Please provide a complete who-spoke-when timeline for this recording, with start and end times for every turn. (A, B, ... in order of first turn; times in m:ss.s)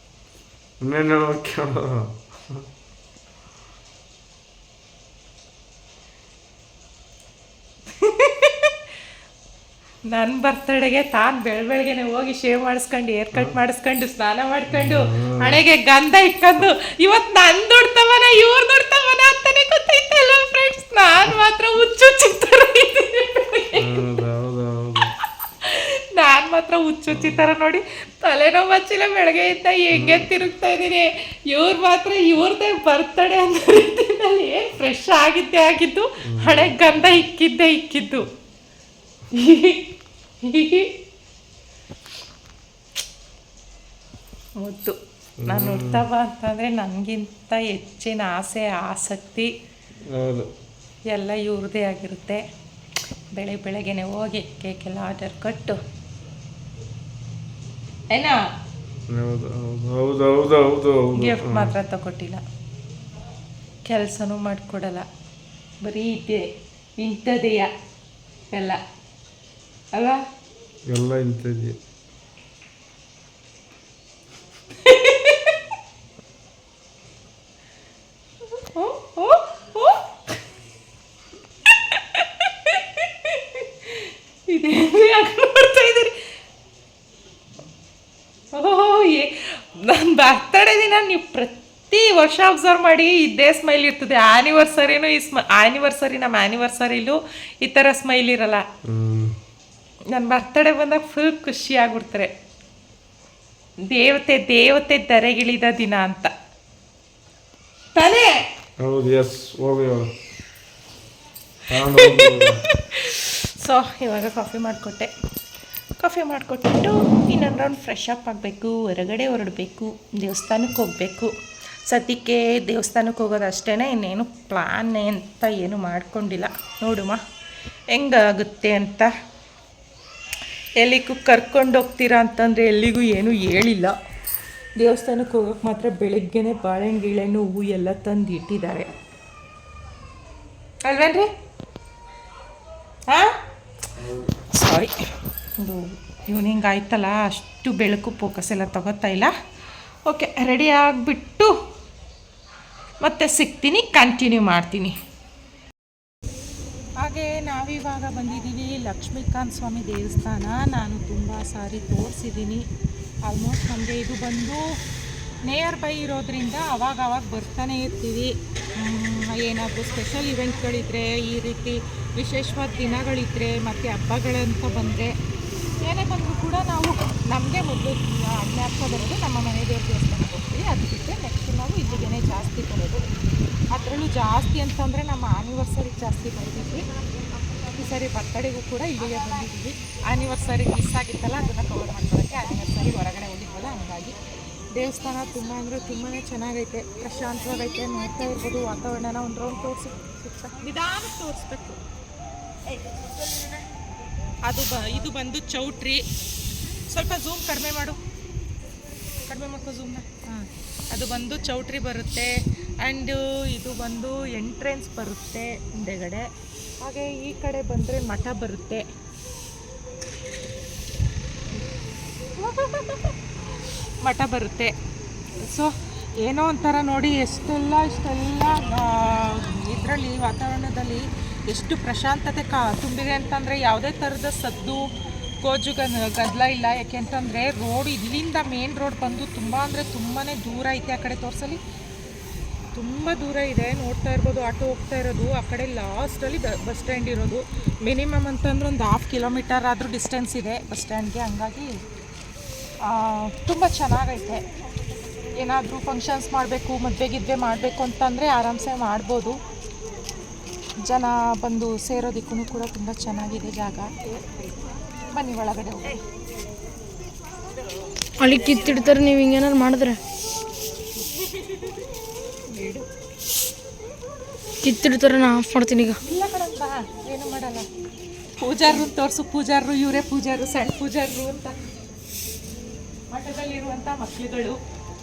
0:00.8-0:02.6 A
0:08.0-0:08.7 B
0:10.1-0:24.0 B
0:14.7-0:15.6 A
0:23.8-0:25.1 A
0:25.6-0:38.3 B
0:27.1-0:27.4 A
0:29.9-0:30.2 A
0:36.3-0:36.7 A
0:39.3-0:39.8 B
0:40.4-0:40.9 B
0:44.6-0:49.5 B
0:45.4-0:46.0 A
0:50.0-0:50.5 A
0:51.1-0:52.4 B
0:53.3-0:55.8 B
0:58.1-0:58.4 B
0:59.1-1:01.7 A
1:01.2-1:02.4 B
1:03.9-1:05.1 B
1:05.8-1:07.7 B
1:08.5-1:08.8 B
1:09.9-1:10.2 B
1:10.9-1:11.8 A
1:14.8-1:15.5 B
1:18.7-1:20.0 B
1:21.9-1:26.1 B
1:28.5-1:38.6 B
1:38.8-1:39.4 A
1:40.1-1:42.3 B
1:43.8-1:46.3 B
1:47.9-1:48.3 B
1:48.8-1:50.1 A
1:51.7-1:52.6 A
1:51.8-1:52.4 B
1:53.0-1:55.1 B
1:56.0-2:01.3 B
2:01.8-2:07.2 B
2:07.9-2:09.1 B
2:10.8-2:14.0 B
2:14.8-2:18.9 B
2:20.8-2:21.3 B
2:24.0-2:24.3 A
2:24.5-2:25.0 B
2:25.6-2:29.3 B
2:30.1-2:31.5 B
2:33.0-2:34.9 B
2:37.0-2:42.6 B
2:43.2-2:44.7 B
2:45.4-2:55.1 B
2:55.8-3:03.1 B
3:03.7-3:06.8 B
3:07.7-3:14.2 B
3:14.7-3:21.8 B
3:22.7-3:23.6 B
3:24.4-3:26.0 B
3:26.9-3:28.0 B
3:29.3-3:36.3 B
3:36.8-3:38.8 B
3:42.4-3:43.1 B
3:44.0-3:44.7 B
3:45.5-3:54.8 B
3:55.4-4:01.6 B
4:02.7-4:11.8 B
4:12.8-4:14.4 B
4:15.4-4:19.4 B
4:20.8-4:24.4 B
4:25.1-4:26.0 B
4:28.2-4:30.0 C
4:32.5-4:32.9 B
4:34.6-4:36.0 C
4:36.0-4:37.7 B
4:38.4-4:41.5 B
4:43.1-4:44.6 B